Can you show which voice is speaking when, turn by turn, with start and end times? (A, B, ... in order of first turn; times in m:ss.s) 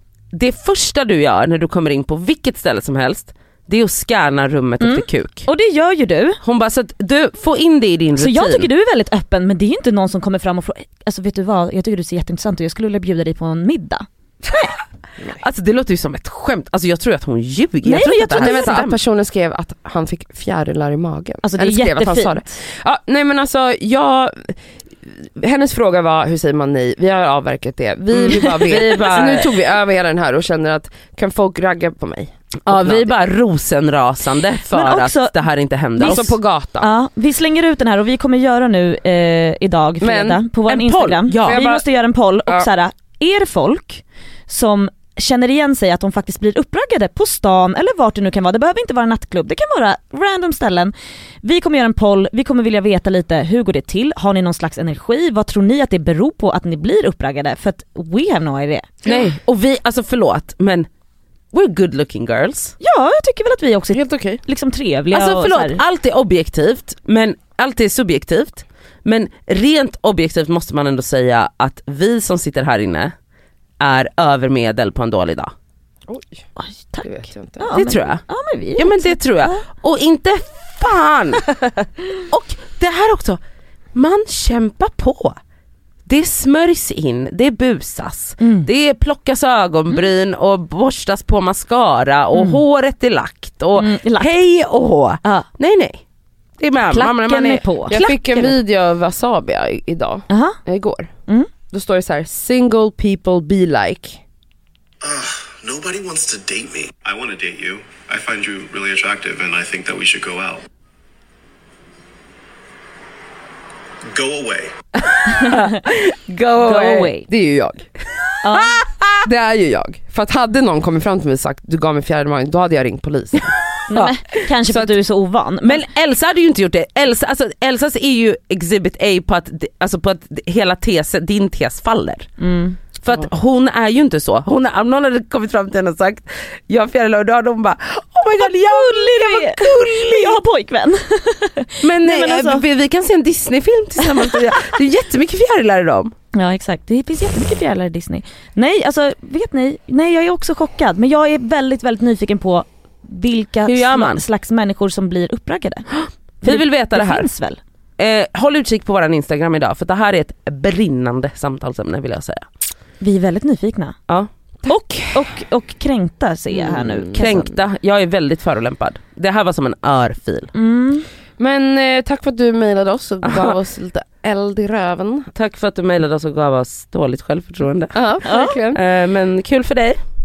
0:00.3-0:05.5 A
0:04.8-0:06.4 B
0:06.4-0:08.7 A
0:08.2-0:14.8 B
0:15.3-0:19.0 A
0:17.8-0:18.8 B
0:18.4-0:24.6 C
0:21.4-0:22.6 B
0:25.2-0:33.1 C
0:28.1-0:29.5 A
0:28.6-0:29.4 B
0:32.6-0:36.4 A
0:34.7-0:35.4 B
0:35.9-0:59.1 B
0:36.0-0:36.9 C
0:40.0-0:40.4 C
0:40.7-0:41.6 A
0:41.4-0:41.8 C
0:59.0-1:00.9 A
1:01.5-1:02.7 A
1:02.8-1:05.8 B
1:03.9-1:04.4 C
1:05.1-1:13.1 A
1:13.8-1:15.5 A
1:16.1-1:16.4 C
1:16.6-1:19.6 B
1:17.0-1:17.8 C
1:17.7-1:18.2 A
1:18.8-1:21.4 A
1:22.2-1:23.4 A
1:23.9-1:25.4 A
1:26.0-1:36.0 A
1:28.4-1:28.7 B
1:32.3-1:32.6 B
1:33.8-1:34.3 B
1:35.2-1:35.5 B
1:36.6-1:38.2 A
1:36.9-1:38.5 B
1:37.9-1:41.1 C
1:40.3-1:40.6 B
1:41.7-1:44.2 C
1:45.0-1:50.6 D
1:54.1-1:54.7 D
1:55.0-1:57.1 A
1:56.6-1:57.3 B
1:57.3-1:57.8 C
1:58.4-1:58.8 B
1:58.5-1:59.2 A
1:59.2-2:03.5 C
2:03.9-2:05.8 B
2:04.7-2:04.9 C
2:05.6-2:12.3 A
2:12.4-2:12.8 B
2:13.0-2:20.4 A
2:18.4-2:22.6 B
2:21.8-2:26.1 A
2:24.0-2:24.3 B
2:26.3-2:37.6 B
2:33.6-2:34.2 A
2:36.4-2:37.3 A
2:38.0-2:42.4 A
2:43.0-2:44.0 B
2:44.6-2:47.5 B
2:46.5-2:47.5 C
2:47.1-2:50.5 A
2:50.5-2:51.0 B
2:51.4-2:55.3 C
2:53.2-2:53.6 A
2:55.3-2:58.0 A
2:57.9-2:58.8 C
2:58.2-2:58.6 B
2:58.7-3:00.0 A